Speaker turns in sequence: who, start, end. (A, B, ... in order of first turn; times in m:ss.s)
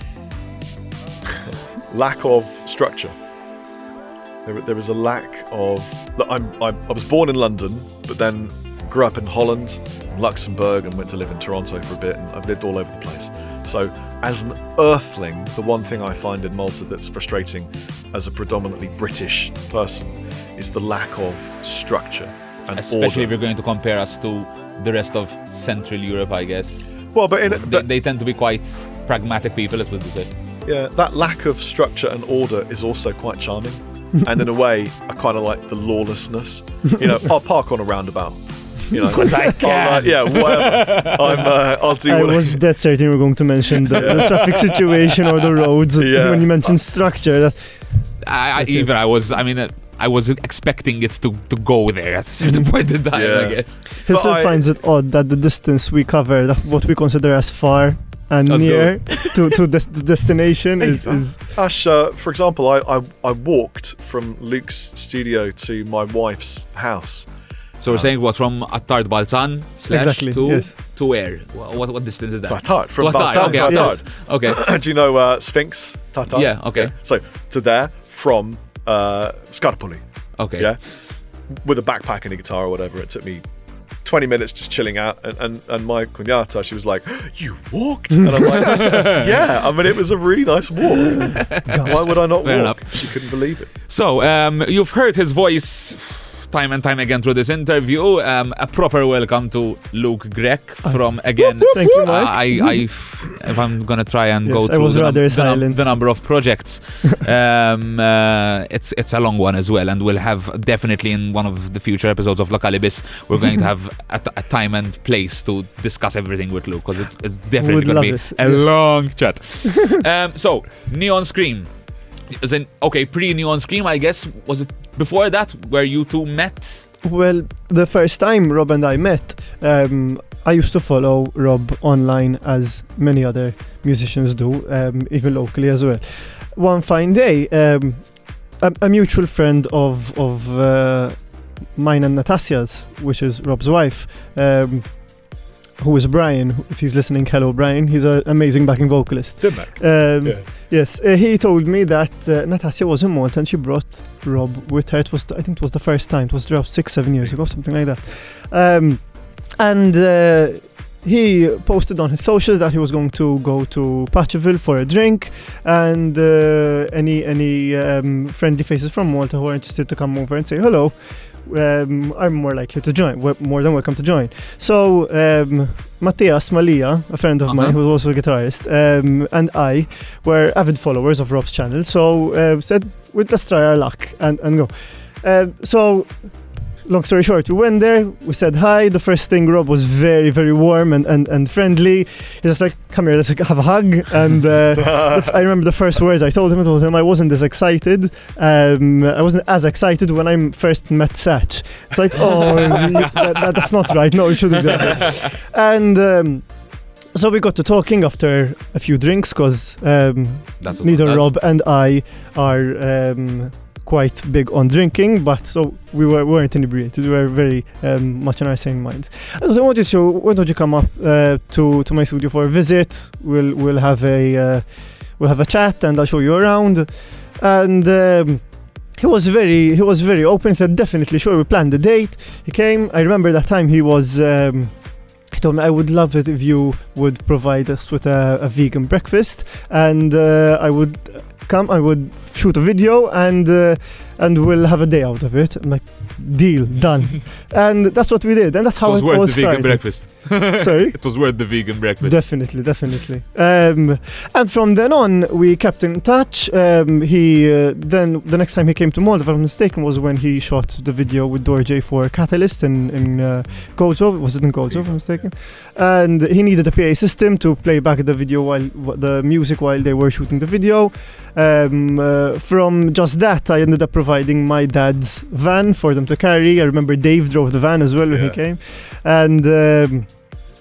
0:01.2-0:03.2 A
0:04.4-0:23.3 A
0:22.7-0:26.9 B
0:27.1-0:27.9 A
0:27.5-0:30.3 B
0:30.6-0:42.6 A
0:39.1-0:41.5 B
0:42.0-0:48.9 C
0:43.9-0:44.6 A
0:46.0-0:46.8 A
0:48.2-0:53.9 B
0:53.1-0:54.6 A
0:54.0-1:01.4 C
0:58.5-0:59.6 B
1:00.8-1:07.3 A
1:07.8-1:14.6 B
1:07.9-1:08.1 A
1:09.9-1:10.7 C
1:12.4-1:20.0 A
1:13.4-1:14.0 C
1:16.3-1:16.9 B
1:20.4-1:20.7 B
1:21.5-1:23.4 A
1:24.0-1:33.7 A
1:28.4-1:29.4 B
1:31.5-1:33.2 B
1:31.7-1:32.0 C
1:33.9-2:01.7 B
1:40.8-1:42.8 C
1:44.4-1:46.0 C
1:57.6-1:59.0 C
2:02.3-2:06.9 B
2:07.0-4:11.4 C
2:29.4-2:30.5 A
2:57.4-2:57.8 B
3:14.8-3:15.3 A
3:30.6-3:31.3 B
4:08.8-4:12.8 B
4:12.0-4:40.4 C
4:24.7-4:25.3 A
4:38.1-4:38.4 A